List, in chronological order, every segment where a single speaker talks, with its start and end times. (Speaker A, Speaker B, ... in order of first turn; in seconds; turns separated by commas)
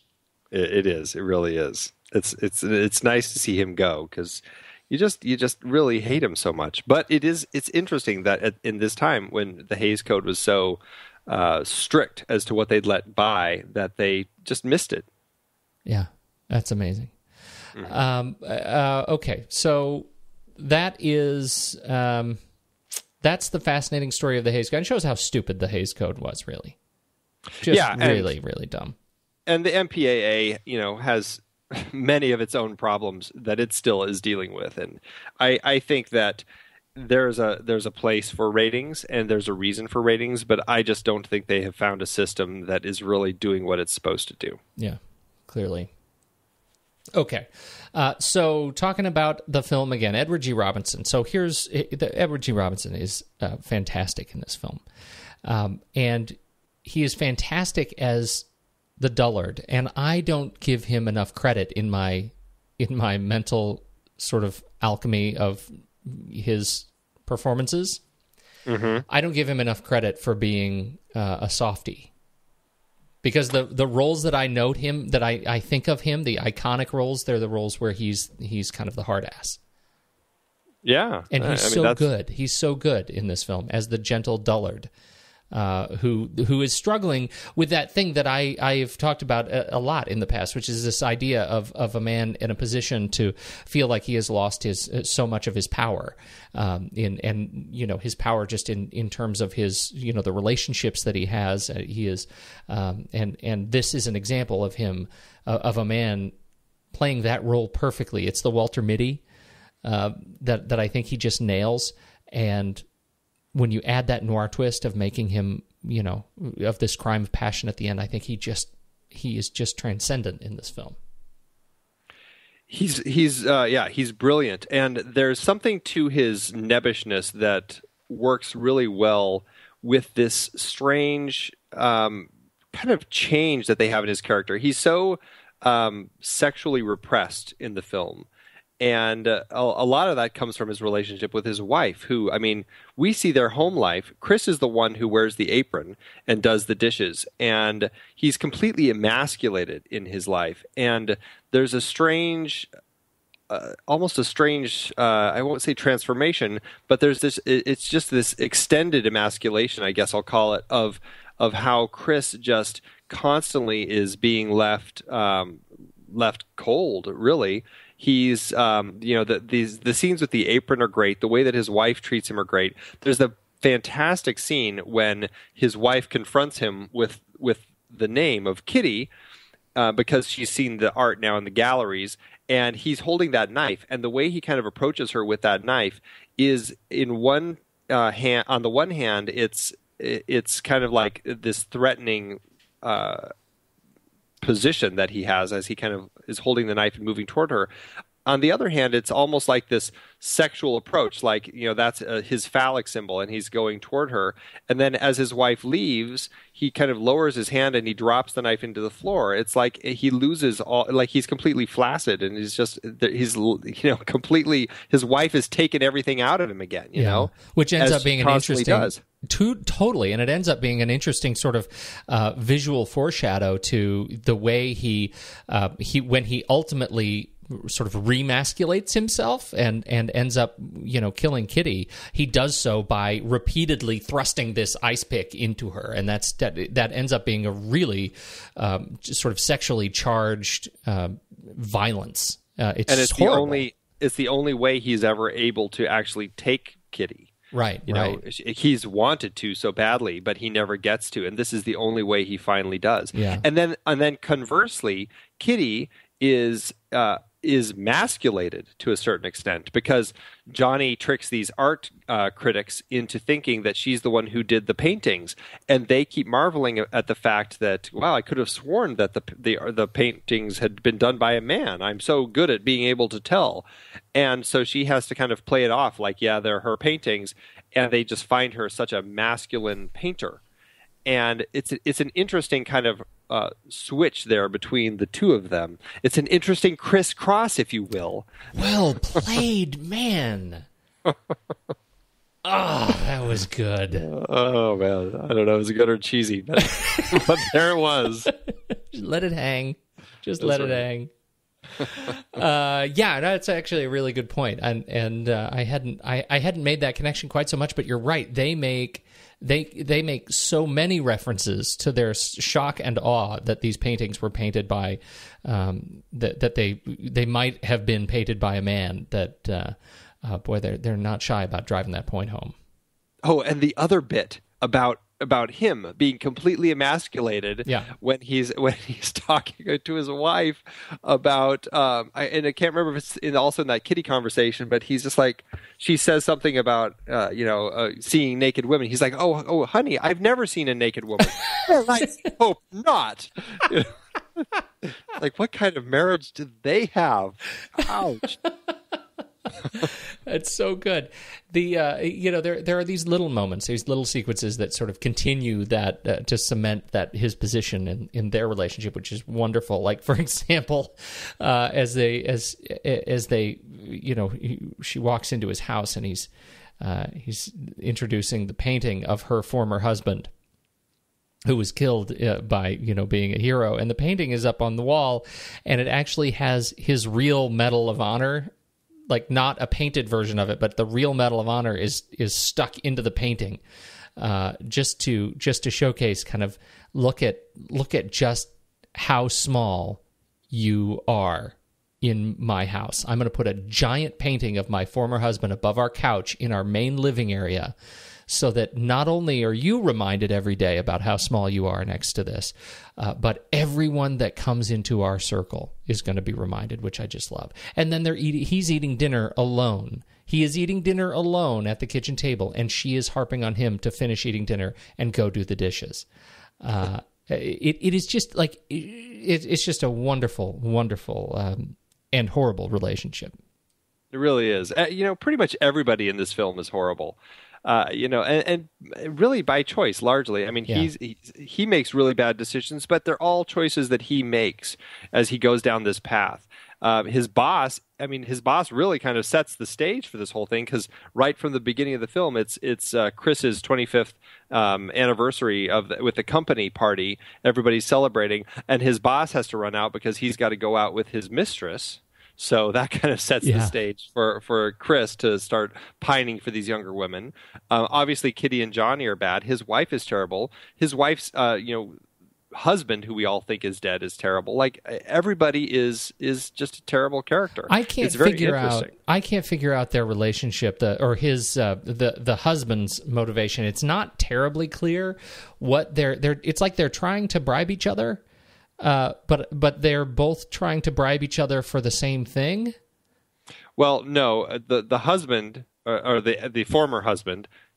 Speaker A: 0.5-15.1, Speaker B: 15.8-17.1, Speaker B: 17.8-22.4, Speaker B: 23.2-26.8, Speaker B: 27.6-28.9, Speaker A: 27.6-28.3, Speaker A: 29.5-36.4, Speaker A: 37.0-44.6, Speaker B: 44.8-45.9, Speaker B: 47.1-54.8, Speaker B: 55.4-58.5, Speaker B: 59.0-68.0, Speaker A: 68.7-69.0, Speaker B: 69.1-72.1, Speaker B: 73.2-79.6, Speaker A: 80.8-82.1, Speaker B: 81.3-84.9, Speaker B: 85.5-106.3, Speaker B: 106.9-109.2, Speaker B: 109.8-112.8, Speaker B: 113.5-121.0, Speaker A: 122.7-138.3, Speaker A: 138.8-152.7, Speaker A: 153.5-179.1, Speaker A: 179.8-193.3, Speaker A: 194.4-197.7, Speaker A: 198.2-219.0, Speaker B: 216.9-243.7, Speaker A: 242.9-247.3, Speaker B: 247.5-248.2, Speaker A: 247.9-280.4, Speaker B: 253.1-253.4, Speaker A: 281.0-288.3, Speaker B: 288.5-290.6, Speaker B: 292.4-294.1, Speaker A: 294.0-298.3, Speaker B: 296.7-297.5, Speaker B: 298.2-301.1, Speaker A: 300.4-300.8, Speaker B: 301.8-322.5, Speaker A: 323.2-343.9, Speaker B: 327.6-327.9, Speaker B: 341.4-341.8, Speaker A: 344.8-348.4, Speaker B: 349.7-366.3, Speaker B: 366.8-370.3, Speaker B: 371.4-378.5, Speaker B: 379.1-383.6, Speaker B: 384.2-397.7, Speaker B: 398.3-416.1, Speaker B: 416.6-423.4, Speaker A: 424.1-462.0, Speaker B: 453.4-453.7, Speaker A: 462.5-468.9, Speaker B: 467.7-478.2, Speaker B: 478.8-482.7, Speaker A: 483.8-487.5